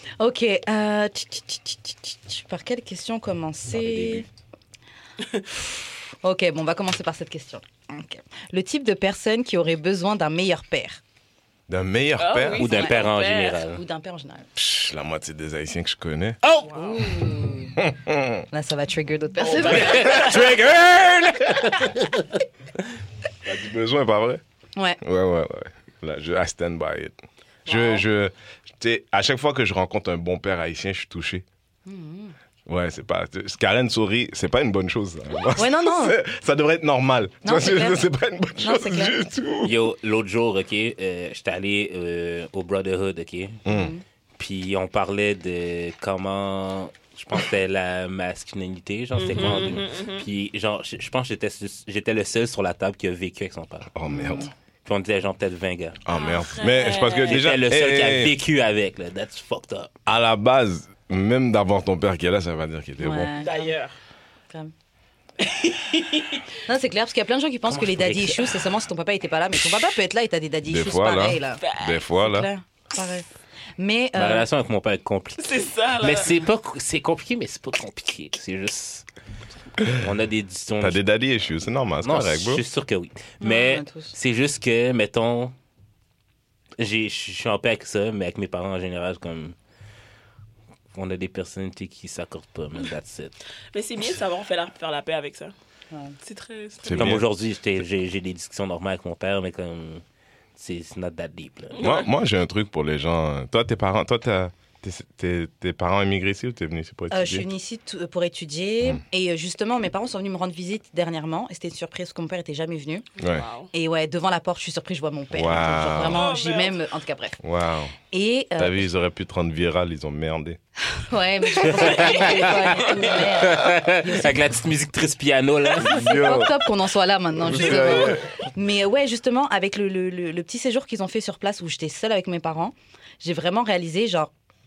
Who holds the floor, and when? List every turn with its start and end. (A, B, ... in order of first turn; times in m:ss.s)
0:00.2-0:04.3 A
0:06.2-0:11.0 A
0:11.7-0:12.6 B
0:12.2-0:13.6 C
0:12.6-0:13.8 D
0:12.6-0:14.4 A
0:14.6-0:16.4 B
0:16.4-0:16.9 D
0:16.7-0:17.0 C
0:16.7-0:17.8 A
0:17.8-0:18.4 B
0:18.5-0:20.3 A
0:19.4-0:20.5 C
0:19.6-0:22.4 D
0:23.4-0:24.4 B
0:25.0-0:27.1 B
0:27.6-0:31.4 B
0:27.7-0:28.0 C
0:31.9-0:32.4 A
0:32.7-0:39.8 B
0:35.5-0:36.2 A
0:37.4-0:38.1 A
0:38.6-0:39.2 A
0:39.6-0:43.6 D
0:43.6-0:43.9 B
0:43.7-0:44.0 A
0:44.4-0:53.9 D
0:49.2-0:50.3 C
0:53.9-0:54.5 B
0:54.1-0:54.5 A
0:54.8-0:56.0 D
0:56.0-0:58.4 B
0:56.1-0:57.4 C
0:57.2-0:59.9 D
1:00.1-1:03.3 B
1:03.0-1:03.7 A
1:03.4-1:03.9 C
1:05.4-1:06.4 C
1:06.6-1:11.6 A
1:07.7-1:08.6 D
1:10.7-1:12.5 B
1:11.6-1:12.0 C
1:12.1-1:13.3 A
1:13.8-1:14.5 A
1:14.2-1:19.0 D
1:15.4-1:16.3 C
1:19.8-1:21.0 D
1:20.8-1:22.6 B
1:22.0-1:25.5 D
1:23.4-1:24.1 A
1:26.8-1:29.6 D
1:30.9-1:33.4 D
1:33.7-1:35.5 C
1:36.2-1:37.2 C
1:36.8-1:37.2 B
1:36.9-1:40.0 D
1:40.6-1:41.9 D
1:41.7-1:42.1 C
1:41.8-1:47.5 B
1:47.1-1:53.1 A
1:53.2-1:53.5 B
1:53.2-1:53.7 C
1:53.7-1:57.4 A
1:55.3-1:56.3 B
1:56.0-1:56.8 C
1:57.4-1:57.9 B
1:58.1-1:58.9 A
1:58.6-2:00.6 B
2:00.9-2:04.5 A
2:01.6-2:06.0 D
2:02.0-2:03.5 C
2:05.8-2:06.6 B
2:05.8-2:14.3 A
2:07.4-2:08.4 B